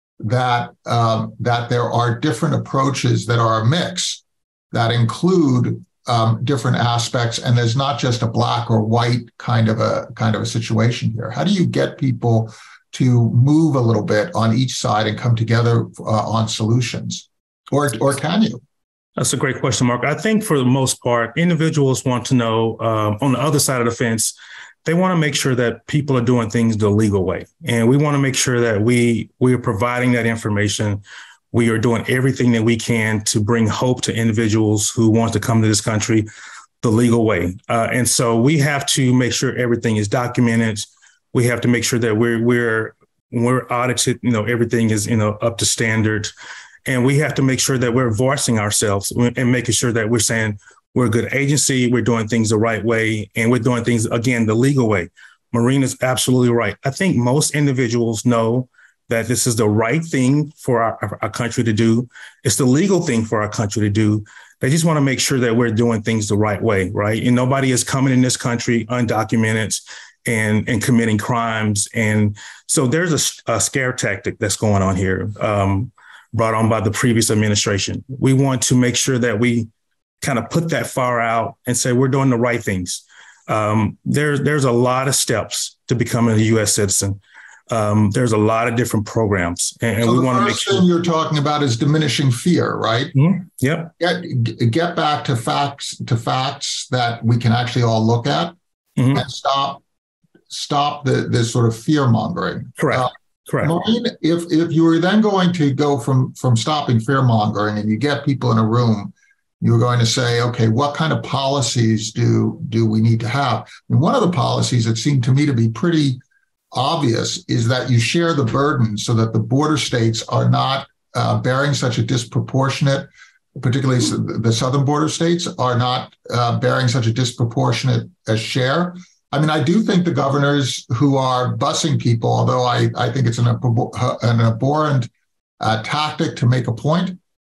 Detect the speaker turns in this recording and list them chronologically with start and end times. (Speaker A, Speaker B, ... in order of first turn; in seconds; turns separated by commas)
Speaker A: 0.2-4.2, Speaker A: 4.7-18.6, Speaker B: 19.2-24.3, Speaker B: 24.9-31.0, Speaker B: 31.5-36.3, Speaker B: 36.8-46.3, Speaker B: 46.9-79.7, Speaker B: 80.2-90.8, Speaker A: 90.0-93.2, Speaker B: 93.1-93.9, Speaker A: 94.0-98.5, Speaker B: 99.0-99.2, Speaker A: 99.1-99.8, Speaker A: 100.5-116.2, Speaker B: 102.8-103.7, Speaker A: 116.7-137.2